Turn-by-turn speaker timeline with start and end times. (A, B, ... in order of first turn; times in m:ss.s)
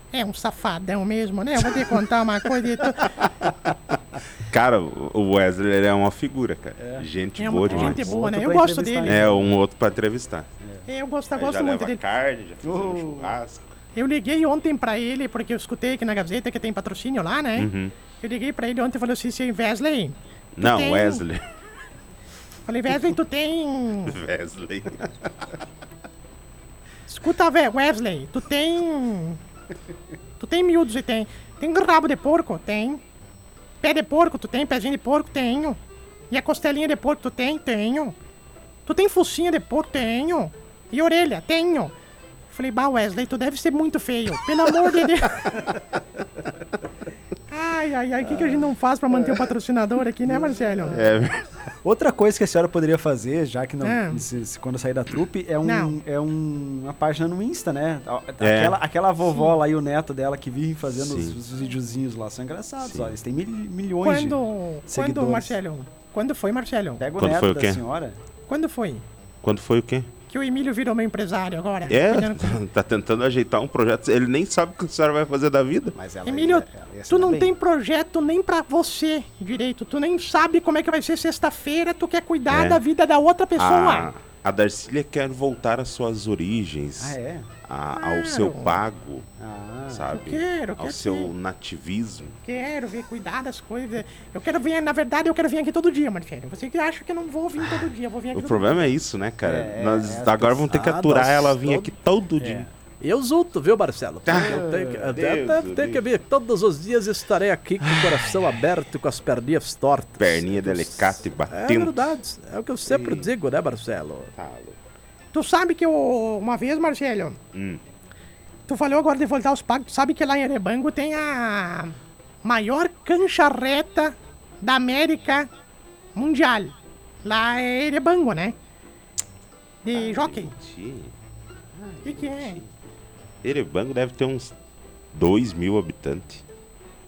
0:00.1-0:03.1 A
0:03.2-0:03.5 B
0:04.5-0:08.0 B
0:06.8-0:07.0 C
0:07.4-0:09.2 A
0:07.6-0:09.5 C
0:09.0-0:10.5 B
0:10.9-0:12.0 A
0:11.3-0:13.7 B
0:12.6-0:13.4 C
0:13.9-0:21.2 A
0:17.6-0:17.9 B
0:20.6-0:21.4 B
0:22.7-0:24.2 A
0:24.1-0:25.1 B
0:27.1-0:29.4 A
0:30.4-0:33.0 A
0:33.8-0:35.8 A
0:36.3-0:38.1 A
0:38.8-0:41.9 A
0:42.5-0:45.6 A
0:47.5-0:51.0 A
0:50.3-0:51.0 C
0:50.9-0:51.4 B
0:51.8-1:05.6 C
0:53.8-0:54.2 A
0:55.6-0:56.0 A
0:58.4-0:58.8 B
1:01.0-1:01.3 B
1:02.8-1:03.1 B
1:04.0-1:07.0 A
1:07.0-1:08.2 C
1:07.2-1:07.8 B
1:08.5-1:09.0 A
1:09.4-1:10.1 B
1:10.3-1:12.6 A
1:11.9-1:16.0 B
1:15.9-1:17.5 C
1:16.2-1:24.1 A
1:22.5-1:22.8 B
1:23.6-1:29.3 B
1:27.0-1:27.5 C
1:27.9-1:28.8 A
1:29.4-1:30.1 C
1:29.9-1:32.4 B
1:30.1-1:31.3 A
1:32.4-1:38.9 A
1:38.3-1:42.7 B
1:39.4-1:40.7 C
1:40.7-1:41.9 D
1:42.4-1:42.7 C
1:43.0-1:50.7 D
1:44.2-1:46.0 B
1:44.3-1:45.0 C
1:50.2-1:52.0 B
1:51.5-1:54.3 D
1:52.9-1:53.3 B
1:54.4-1:54.8 B
1:55.3-1:57.4 A
1:57.5-1:57.8 B
1:58.7-2:05.5 A
2:06.1-2:08.5 A
2:09.8-2:10.5 A
2:09.9-2:11.1 B
2:11.8-2:12.7 B
2:12.0-2:12.6 A
2:13.4-2:14.5 B
2:15.1-2:16.4 B